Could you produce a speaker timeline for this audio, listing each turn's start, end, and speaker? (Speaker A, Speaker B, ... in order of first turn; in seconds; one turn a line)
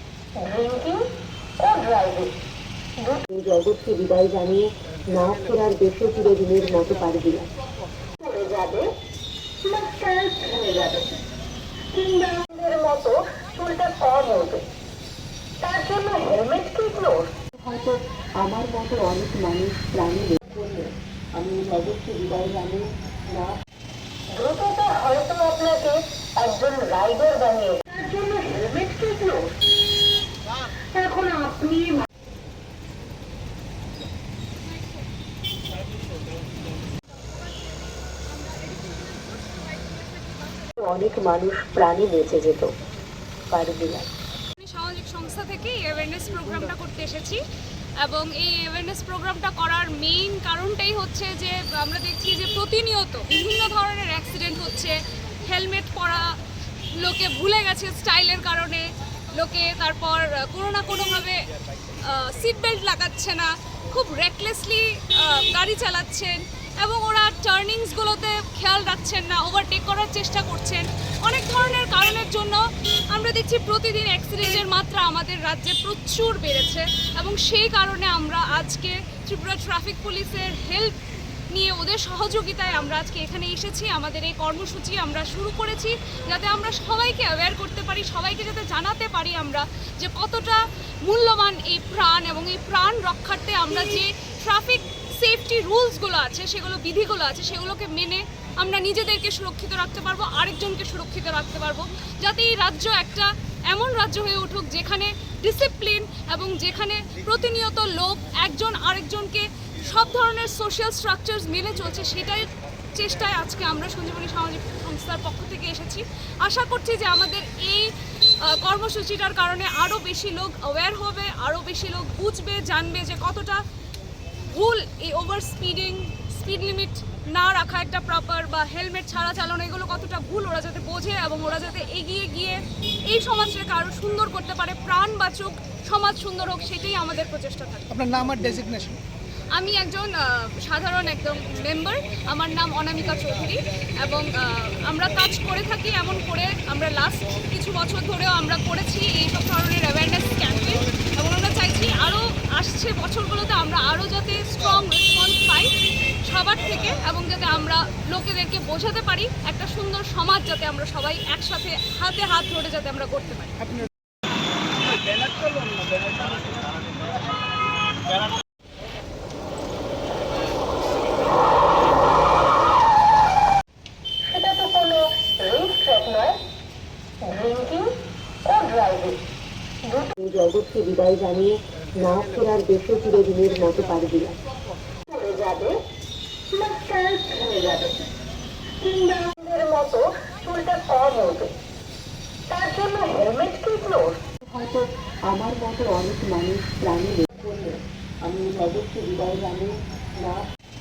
Speaker A: 0.4-1.0
Speaker A: 1.6-2.3
Speaker A: 3.0-3.2
Speaker B: 3.3-7.5
Speaker A: 8.2-8.9
Speaker A: 9.6-11.2
Speaker A: 11.9-14.7
Speaker A: 15.6-17.3
Speaker B: 17.6-23.6
Speaker A: 24.3-29.8
Speaker A: 30.6-32.0
Speaker C: 37.2-40.7
Speaker B: 40.8-42.7
Speaker B: 43.5-44.1
Speaker C: 44.6-47.4
Speaker C: 48.0-56.3
Speaker C: 57.0-81.0
Speaker C: 81.5-123.6
Speaker C: 124.4-138.0
Speaker D: 137.9-139.0
Speaker C: 139.5-163.7
Speaker D: 165.0-166.3
Speaker A: 174.2-176.4
Speaker A: 177.2-177.9
Speaker A: 178.4-179.2
Speaker A: 179.8-180.1
Speaker B: 180.2-184.3
Speaker A: 185.0-185.8
Speaker A: 186.5-188.1
Speaker A: 188.8-191.6
Speaker A: 192.5-194.2
Speaker B: 194.5-200.5